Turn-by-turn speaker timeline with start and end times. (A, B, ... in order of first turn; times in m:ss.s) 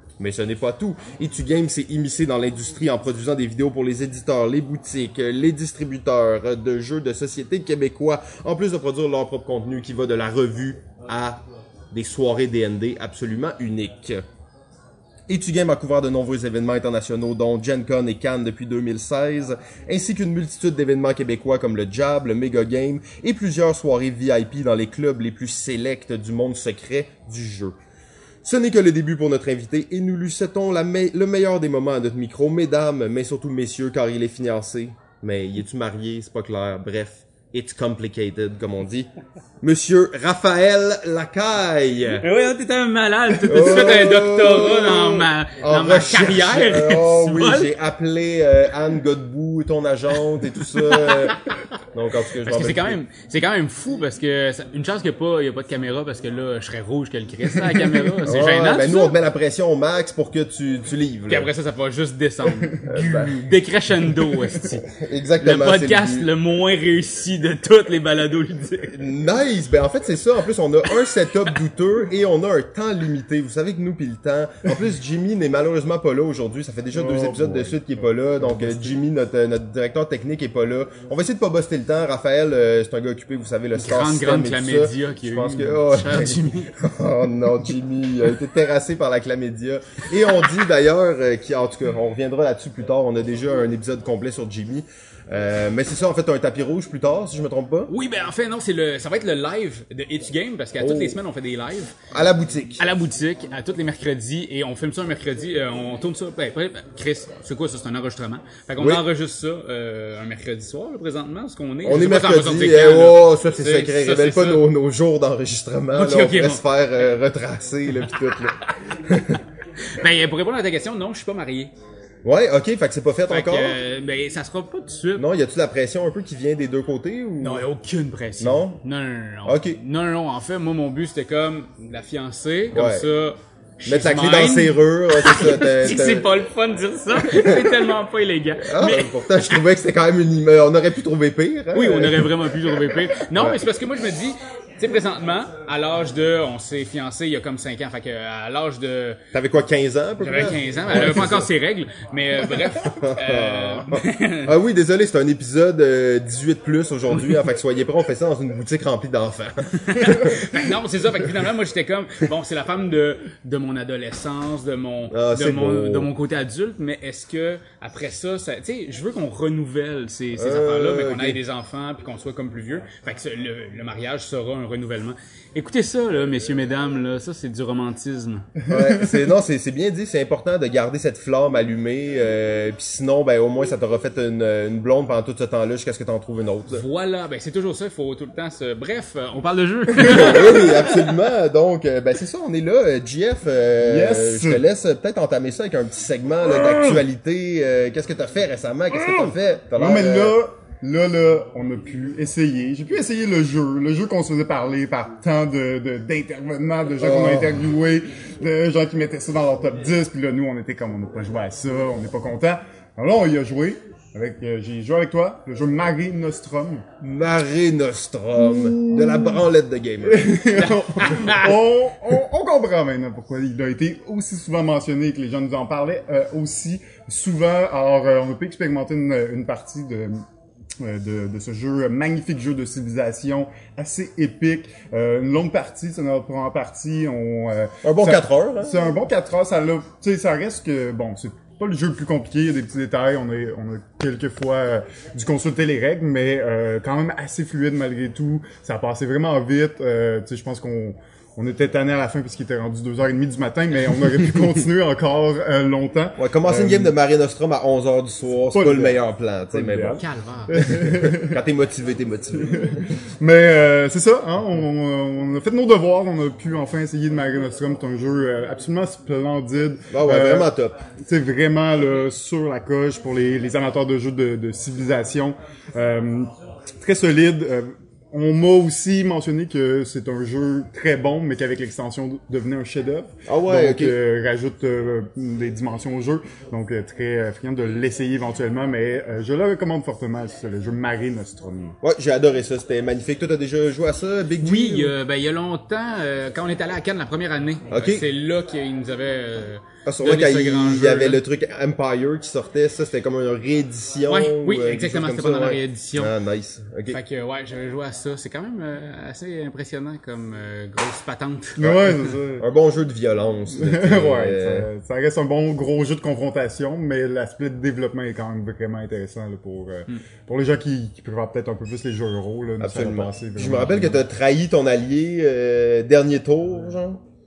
0:00.2-0:11.4 A
0:11.9-0:14.2 A
0:15.3-0:27.8 A
0:28.4-0:39.1 A
0:39.6-0:42.2 A
0:42.2-0:47.7 B
0:43.5-0:53.0 A
0:51.0-0:51.3 B
0:52.4-0:59.2 B
0:57.5-0:58.1 C
0:58.2-1:01.5 A
1:01.3-1:04.8 B
1:02.5-1:02.8 C
1:02.9-1:03.4 A
1:04.9-1:06.3 A
1:05.4-1:09.0 B
1:08.9-1:37.9 A
1:16.9-1:19.0 C
1:23.8-1:26.7 B
1:37.9-1:41.9 B
1:40.8-1:41.2 A
1:42.1-1:42.8 A
1:42.8-1:54.6 B
1:48.8-1:49.0 A
1:51.8-1:59.4 A
1:55.9-1:56.6 B
1:58.1-1:58.6 B
1:59.8-2:01.7 B
2:02.2-2:03.8 A
2:03.3-2:05.2 B
2:05.2-2:07.6 A
2:07.4-2:19.6 B
2:08.4-2:08.8 A
2:09.4-2:09.8 A
2:12.7-2:13.1 A
2:13.8-2:16.3 A
2:17.2-2:17.8 A
2:18.6-2:22.3 A
2:21.7-2:29.2 B
2:23.3-2:23.6 A
2:29.3-2:31.5 A
2:30.2-2:34.5 B
2:32.8-2:40.5 A
2:39.8-2:58.5 B
2:45.1-2:46.1 A
2:50.4-2:51.4 A
2:58.7-3:06.8 A
3:06.7-3:10.9 B
3:10.0-3:20.4 A
3:13.8-3:14.6 C
3:16.5-3:17.0 C
3:18.9-3:36.8 C
3:27.0-3:27.6 A
3:37.0-3:40.4 A
3:38.4-3:39.4 C
3:40.0-3:50.2 C
3:40.5-3:41.5 B
3:50.8-4:16.9 C
3:57.8-3:59.0 A
4:16.2-4:20.0 A
4:18.5-4:21.4 C
4:20.0-4:20.6 B
4:20.5-4:22.9 A
4:22.4-4:36.3 C
4:29.9-4:30.8 A
4:36.8-4:51.8 C
4:43.3-4:44.0 A
4:51.8-4:54.9 A
4:54.4-5:01.2 B
4:57.7-4:58.0 A
4:59.8-5:07.0 A
5:04.1-5:06.1 B
5:06.9-5:11.6 B
5:11.6-5:12.4 C
5:11.6-5:14.7 A
5:13.5-5:24.0 C
5:22.6-5:27.0 A